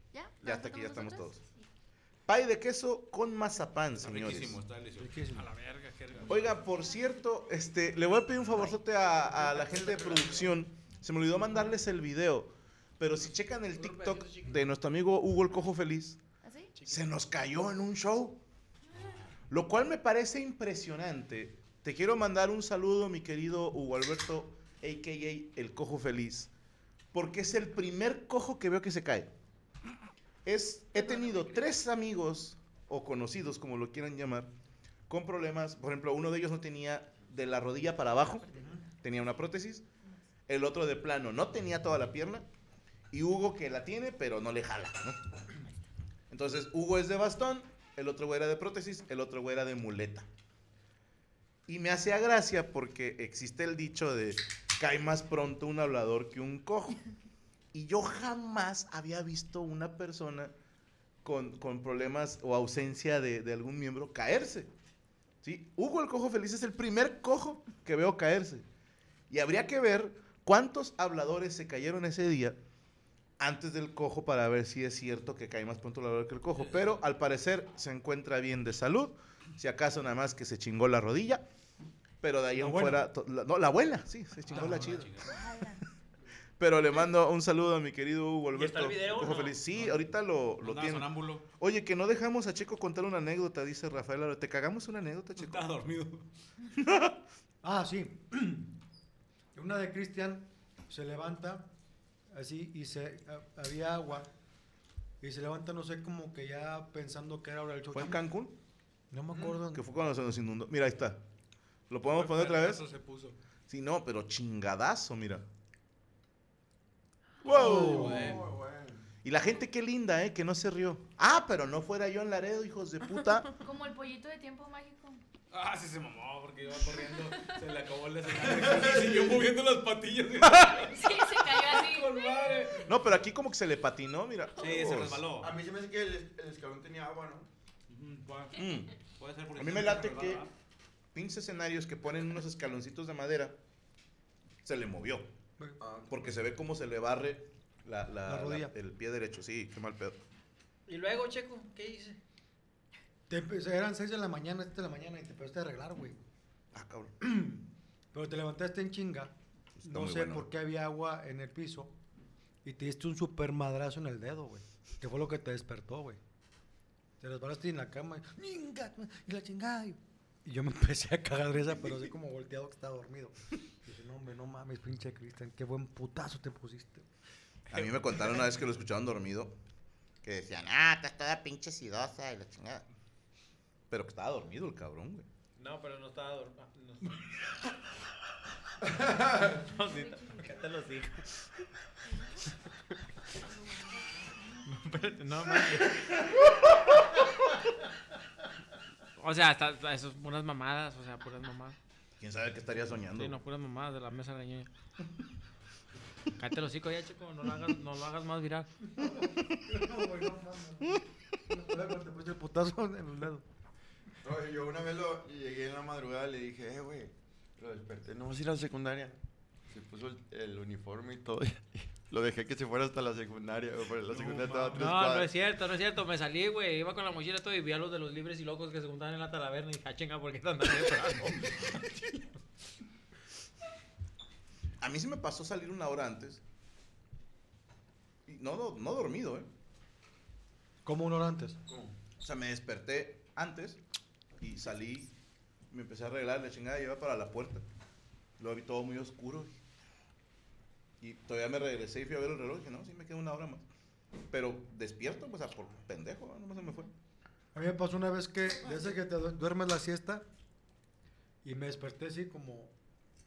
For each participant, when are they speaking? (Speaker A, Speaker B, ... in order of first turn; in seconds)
Speaker A: 0.1-1.3, 16.4-16.7, 85.2-85.8
Speaker B: 0.4-1.4, 2.3-4.6, 6.2-16.2, 16.9-18.4, 19.5-26.5, 27.1-29.3, 30.4-34.5, 35.1-39.9, 40.5-42.5, 43.1-45.2, 46.3-50.3, 51.7-57.0, 57.7-60.5, 61.2-64.7, 65.4-68.6, 69.3-72.6, 73.4-81.4, 82.2-85.1, 86.6-95.6, 96.8-97.2, 107.9-108.5, 109.7-111.2, 111.9-112.8, 113.7-115.4, 117.4-118.1, 119.2-123.5, 132.9-135.3, 138.6-138.9, 139.6-140.4, 141.1-143.6, 144.6-145.3, 146.1-150.2, 156.7-157.1, 159.8-160.5, 177.7-179.5, 180.2-182.8, 183.9-185.3, 202.2-203.4, 234.8-236.4, 238.2-239.5, 242.2-243.8, 244.4-245.1, 245.7-247.6, 248.4-249.6, 251.0-253.7, 254.3-256.9
Speaker C: 4.0-5.2, 76.6-77.0, 84.5-85.3, 90.6-91.4, 95.4-96.2, 112.2-113.3, 117.5-118.5, 125.5-132.9, 134.6-135.5, 137.9-138.6, 139.2-140.5, 224.2-224.8
Speaker D: 5.0-5.5, 82.6-83.0, 97.6-98.7, 99.5-101.7, 102.3-104.3, 105.2-108.2, 109.1-109.8, 117.5-118.3, 148.2-148.7, 153.3-156.2, 157.2-159.3, 159.8-161.9, 162.6-166.2, 167.2-177.1, 208.9-213.4, 240.8-241.6, 257.5-260.2, 261.4-262.7
Speaker E: 5.3-6.5, 13.8-14.6, 16.8-17.0, 88.5-89.6, 150.9-152.2, 185.6-187.2, 189.4-191.2, 194.6-196.0, 199.2-201.8, 203.1-204.7, 206.4-208.7, 224.4-232.2
Speaker F: 117.5-119.0, 128.5-129.4, 135.4-137.5, 145.8-146.2, 214.2-219.2, 219.7-225.3
Speaker G: 123.6-125.2, 130.9-132.4